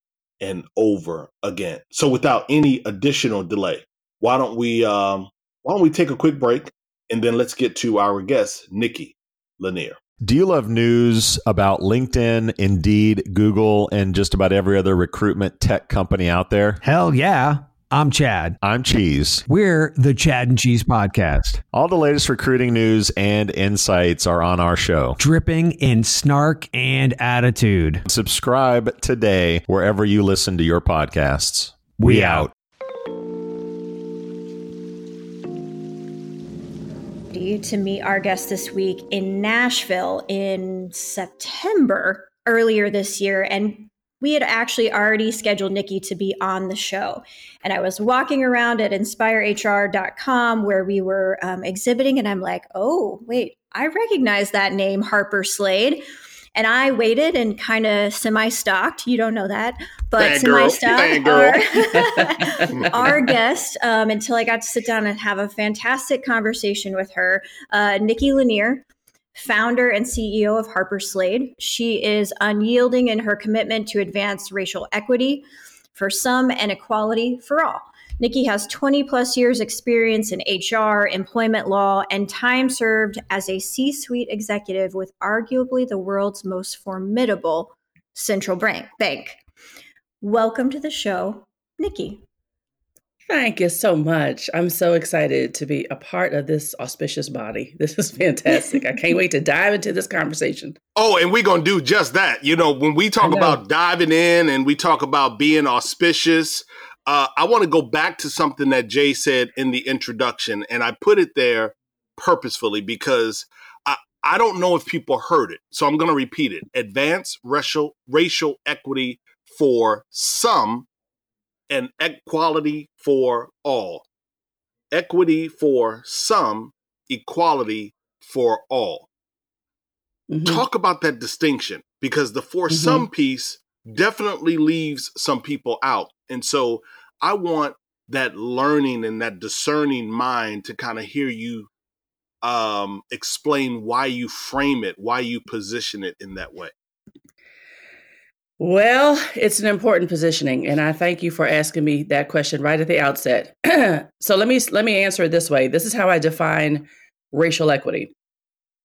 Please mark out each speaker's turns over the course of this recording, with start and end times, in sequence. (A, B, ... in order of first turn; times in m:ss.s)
0:00.4-0:10.0 A
0:10.2-0:16.8 B
0:16.8-0:18.6 C
0:18.6-0:19.4 B
0:19.5-0:21.6 C
0:21.7-0:25.2 B
0:25.2-0:28.0 C
0:28.1-0:32.5 B
0:32.0-0:32.5 C
0:37.3-0:56.0 D
0:56.5-1:08.8 D
1:00.2-1:01.9 A
1:02.8-1:03.2 A
1:09.4-1:29.4 D
1:30.2-1:32.2 D
1:33.3-1:40.8 E
1:41.0-2:00.9 A
1:43.2-1:43.6 E
2:01.7-2:04.0 A
2:04.9-2:09.1 A
2:10.3-2:10.6 E
2:10.4-2:21.7 A
2:12.7-2:13.1 E
2:22.4-2:26.7 A
2:28.6-2:38.1 E